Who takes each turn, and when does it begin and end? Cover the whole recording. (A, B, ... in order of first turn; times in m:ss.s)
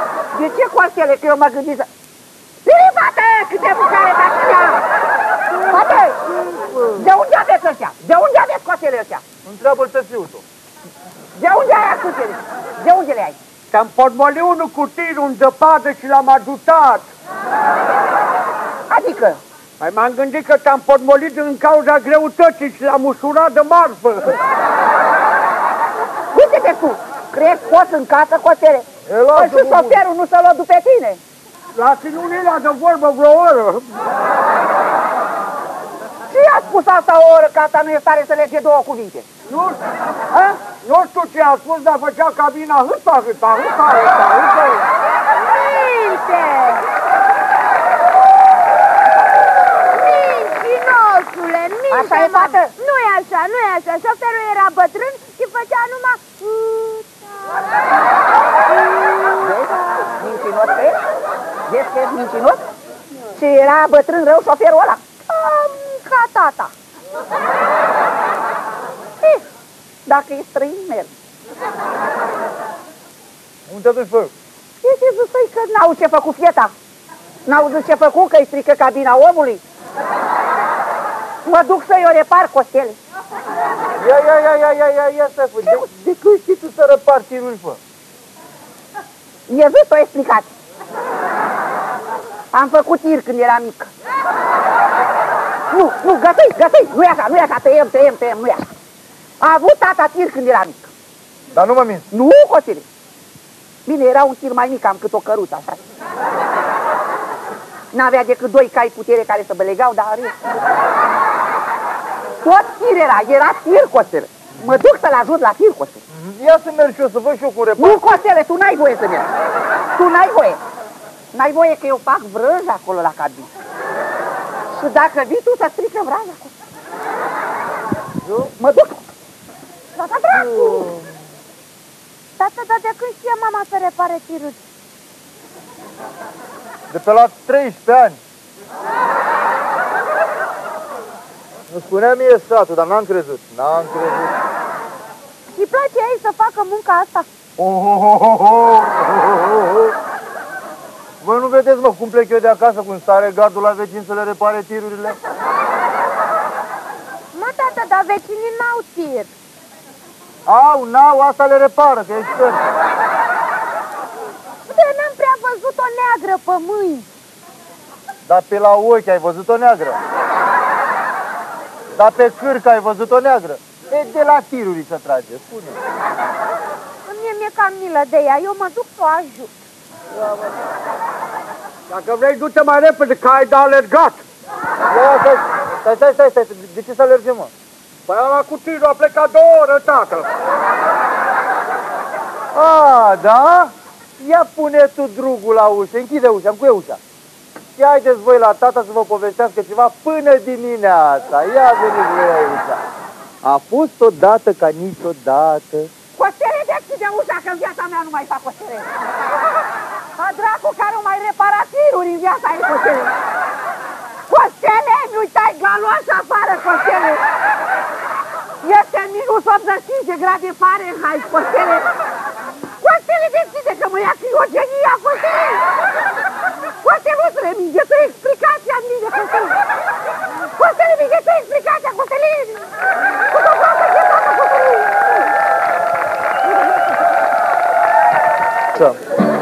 0:00.3-0:01.9 A
0:02.6-0:04.8 A
0:05.5-0:07.1 B
0:05.7-0:06.2 A
0:06.9-0:09.2 A
0:09.4-0:10.4 B
0:11.4-0:13.4 A
0:13.7-0:17.1 C
0:18.9-0:19.4 A
0:19.8-0:24.4 C
0:26.3-0:31.2 A
0:29.0-0:30.0 B
0:31.7-0:33.9 C
0:36.3-0:39.2 A
0:39.5-0:39.8 C
0:40.3-0:40.6 A
0:40.6-0:44.8 C
0:45.3-0:46.9 D
0:49.9-0:57.5 D
0:51.9-0:52.7 A
0:58.7-0:59.5 D
0:59.4-1:01.0 A
1:01.7-1:02.6 A
1:03.3-1:05.1 A
1:05.3-1:06.7 D
1:10.1-1:11.1 A
1:13.7-1:14.3 B
1:14.8-1:16.7 A
1:17.4-1:19.6 A
1:21.4-1:23.0 A
1:24.0-1:27.8 B
1:29.5-1:30.5 A
1:32.5-1:33.9 A
1:35.7-1:38.7 A
1:39.4-1:40.9 A
1:41.5-1:42.0 B
1:42.1-1:42.8 A
1:43.8-1:45.8 A
1:47.9-1:50.4 A
1:52.4-1:56.0 A
1:56.1-1:58.0 B
1:57.8-1:59.3 A
2:00.0-2:00.6 A
2:01.3-2:03.5 A
2:04.7-2:06.5 A
2:08.2-2:08.5 B
2:08.6-2:09.0 A
2:10.0-2:10.9 A
2:10.3-2:11.2 B
2:12.4-2:14.6 D
2:16.9-2:18.2 B
2:21.7-2:24.3 B
2:25.5-2:27.3 D
2:27.6-2:29.9 B
2:31.2-2:35.2 B
2:37.3-2:39.3 D
2:40.4-2:42.7 B
2:44.7-2:47.0 D
2:48.2-2:50.0 B
2:52.0-2:55.8 B
2:57.0-2:59.6 D
3:00.1-3:00.5 B
3:01.9-3:04.2 C
3:04.9-3:07.5 B
3:08.1-3:10.3 C
3:12.5-3:17.0 B
3:17.8-3:22.8 B
3:23.4-3:25.9 B
3:26.2-3:28.9 A
3:30.2-3:33.1 A
3:34.3-3:37.2 A
3:38.6-3:41.9 A
3:42.8-3:45.6 A
3:46.8-3:49.6 A
3:50.6-3:52.6 A
3:53.3-3:55.3 A
3:58.7-3:59.0 B